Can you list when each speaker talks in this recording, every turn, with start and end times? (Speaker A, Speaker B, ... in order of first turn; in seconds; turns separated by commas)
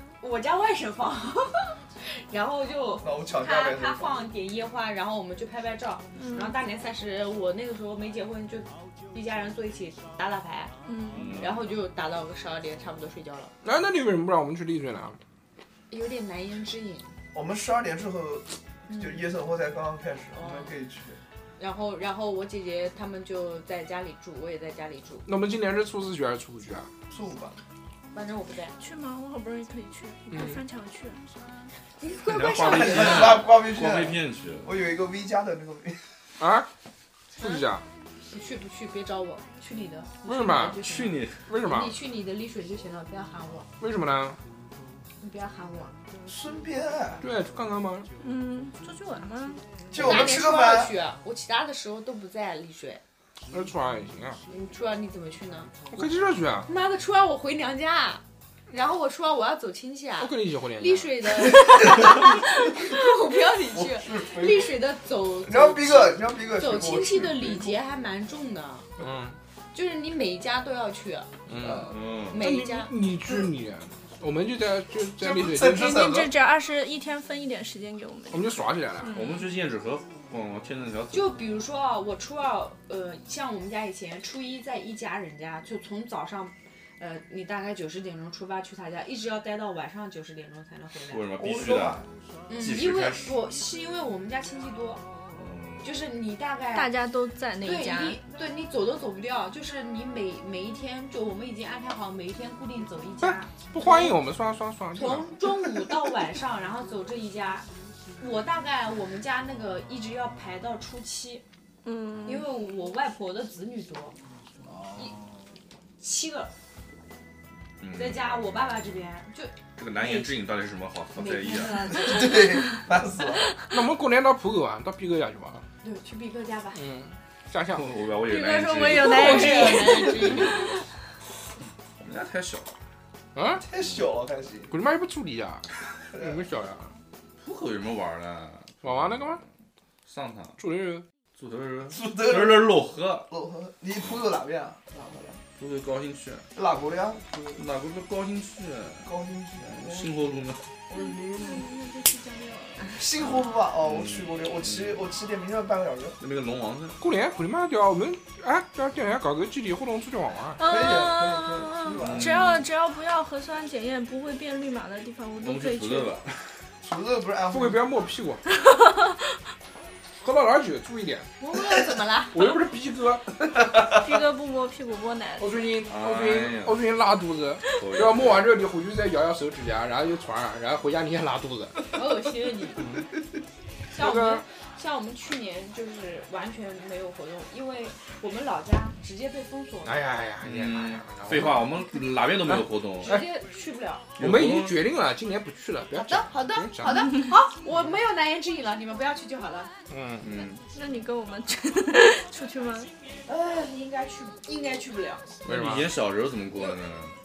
Speaker A: 0.2-10.7, Speaker B: 3.0-4.2, Speaker C: 6.2-6.6, Speaker C: 10.8-11.4, Speaker D: 11.1-11.7, Speaker A: 11.3-13.5, Speaker E: 13.6-15.2, Speaker A: 15.9-17.1, Speaker B: 17.3-21.2, Speaker A: 18.9-19.3, Speaker A: 20.3-20.7, Speaker A: 21.6-25.3, Speaker E: 25.3-26.9, Speaker B: 27.1-27.6, Speaker A: 28.1-28.7, Speaker C: 28.8-31.2, Speaker E: 30.3-30.6, Speaker A: 32.0-33.4, Speaker D: 32.3-34.7, Speaker E: 32.5-33.1, Speaker B: 32.6-36.0, Speaker E: 36.4-36.7, Speaker E: 37.4-37.8, Speaker A: 37.4-37.6, Speaker A: 38.3-43.7, Speaker E: 40.3-40.8, Speaker D: 40.8-41.4, Speaker E: 41.4-42.0, Speaker E: 43.8-44.4, Speaker A: 45.2-46.0, Speaker B: 46.3-47.2, Speaker E: 47.2-48.1, Speaker C: 48.2-49.6, Speaker B: 49.9-51.0, Speaker A: 49.9-53.0, Speaker E: 53.5-54.4, Speaker A: 54.5-55.9, Speaker E: 55.9-56.7, Speaker A: 56.7-68.9, Speaker E: 60.2-61.5, Speaker B: 63.6-64.8, Speaker B: 65.5-67.8, Speaker E: 69.0-69.4, Speaker A: 69.7-71.3, Speaker E: 71.5-76.0, Speaker B: 71.6-72.0, Speaker D: 71.8-72.4, Speaker A: 72.1-72.9, Speaker B: 75.2-76.3, Speaker C: 75.5-79.5, Speaker E: 78.3-79.1, Speaker D: 79.1-81.4, Speaker A: 81.1-91.8, Speaker D: 91.1-92.1, Speaker B: 91.4-92.0, Speaker A: 92.5-95.0, Speaker D: 92.6-93.4, Speaker D: 95.3-95.9, Speaker A: 95.8-96.9, Speaker C: 96.7-98.2, Speaker A: 97.6-104.2, Speaker E: 103.2-105.5, Speaker A: 105.0-107.7, Speaker A: 108.2-111.4, Speaker C: 111.8-112.5, Speaker A: 112.3-114.2, Speaker B: 114.6-115.3, Speaker A: 116.0-116.5, Speaker D: 117.8-118.4, Speaker A: 117.9-120.4, Speaker D: 119.8-121.9, Speaker A: 121.2-122.8, Speaker B: 121.9-123.5, Speaker E: 123.7-125.7, Speaker A: 125.8-126.8, Speaker E: 126.7-127.9, Speaker D: 127.7-130.4, Speaker C: 128.2-130.7, Speaker A: 128.8-130.8, Speaker D: 132.0-132.8, Speaker E: 133.3-133.6, Speaker B: 133.6-134.7, Speaker E: 134.7-137.0, Speaker D: 137.4-139.5, Speaker E: 138.8-139.4, Speaker D: 140.1-140.6, Speaker E: 140.6-141.0, Speaker D: 141.4-143.3, Speaker B: 141.9-145.4, Speaker D: 145.6-146.5, Speaker B: 146.6-147.6, Speaker D: 147.6-149.1, Speaker B: 149.0-150.2, Speaker D: 149.6-150.7, Speaker B: 150.9-151.6, Speaker C: 150.9-153.0, Speaker B: 152.9-156.2, Speaker D: 153.8-155.0, Speaker D: 156.2-157.0, Speaker E: 157.0-160.6, Speaker C: 160.6-166.1, Speaker B: 160.6-162.4, Speaker D: 162.0-162.7, Speaker D: 165.4-166.5, Speaker B: 166.8-167.8, Speaker E: 167.5-168.4, Speaker C: 168.5-169.4, Speaker E: 170.2-171.3, Speaker A: 171.4-172.6, Speaker E: 172.3-173.4, Speaker C: 173.9-175.5, Speaker E: 175.4-181.8, Speaker D: 175.9-176.8, Speaker D: 177.7-178.5, Speaker A: 181.9-183.0, Speaker A: 183.9-190.0, Speaker E: 184.0-184.4, Speaker E: 189.8-191.8, Speaker D: 190.4-193.2, Speaker E: 192.5-193.3, Speaker A: 193.0-194.1, Speaker D: 194.2-194.8, Speaker E: 194.2-197.1, Speaker A: 195.9-199.7, Speaker E: 199.9-200.3, Speaker D: 200.2-200.6, Speaker C: 200.7-202.9, Speaker A: 203.3-205.4, Speaker E: 205.4-205.9, Speaker D: 205.4-207.2